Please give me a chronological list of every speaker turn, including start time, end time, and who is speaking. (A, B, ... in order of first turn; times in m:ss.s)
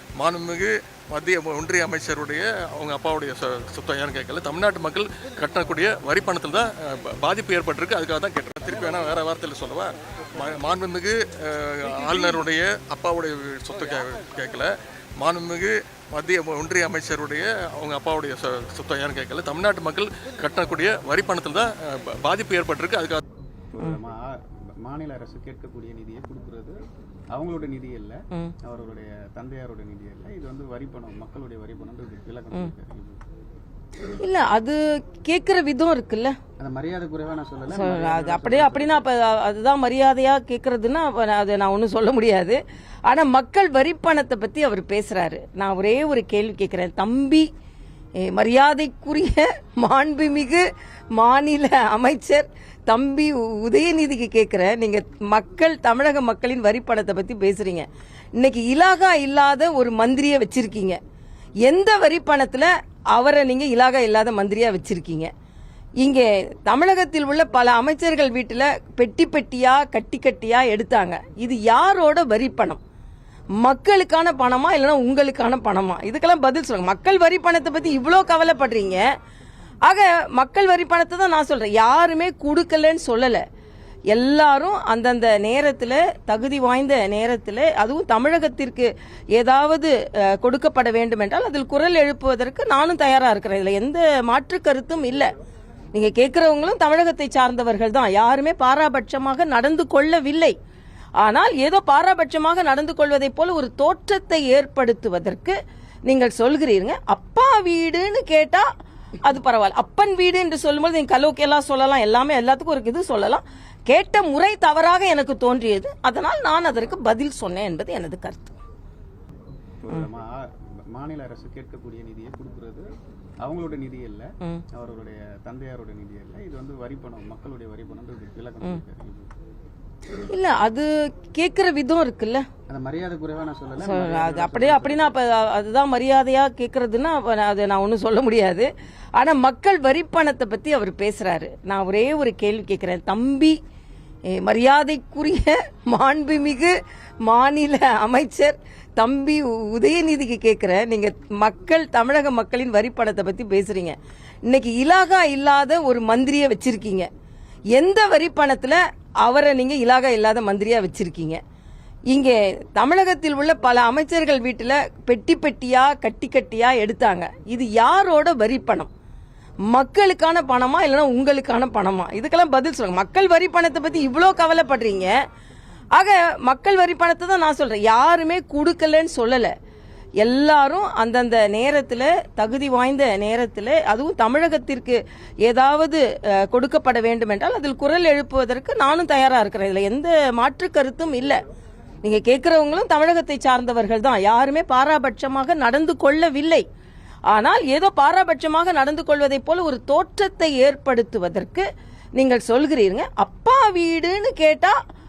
0:00.2-0:09.9 A
0:10.4-0:14.7 A
0:15.2-0:23.2 A
0:23.7-0:26.8 B
0:27.3-0:33.2 B
0:34.1-0:36.4 C
0:36.6-0:39.0 B
0:37.7-0:47.5 C
0:48.2-0:50.6 C
0:51.2-1:01.0 C
1:01.6-1:05.3 C
1:06.0-1:12.8 C
1:13.6-1:19.1 C
1:19.9-1:23.4 C
1:24.1-1:35.3 C
1:35.9-1:40.6 C
1:41.2-1:45.5 C
1:46.1-1:48.7 C
1:49.2-1:58.6 C
1:59.8-2:02.9 B
2:03.4-2:09.3 B
2:10.1-2:12.4 C
2:12.7-2:15.2 B
2:13.8-2:23.6 C
2:24.3-2:26.7 C
2:27.2-2:37.1 C
2:37.8-2:41.4 C
2:42.1-2:48.9 C
2:49.7-2:55.2 C
2:56.0-2:59.5 C
3:00.2-3:11.4 C
3:12.0-3:16.6 C
3:17.3-3:21.6 C
3:22.2-3:24.8 C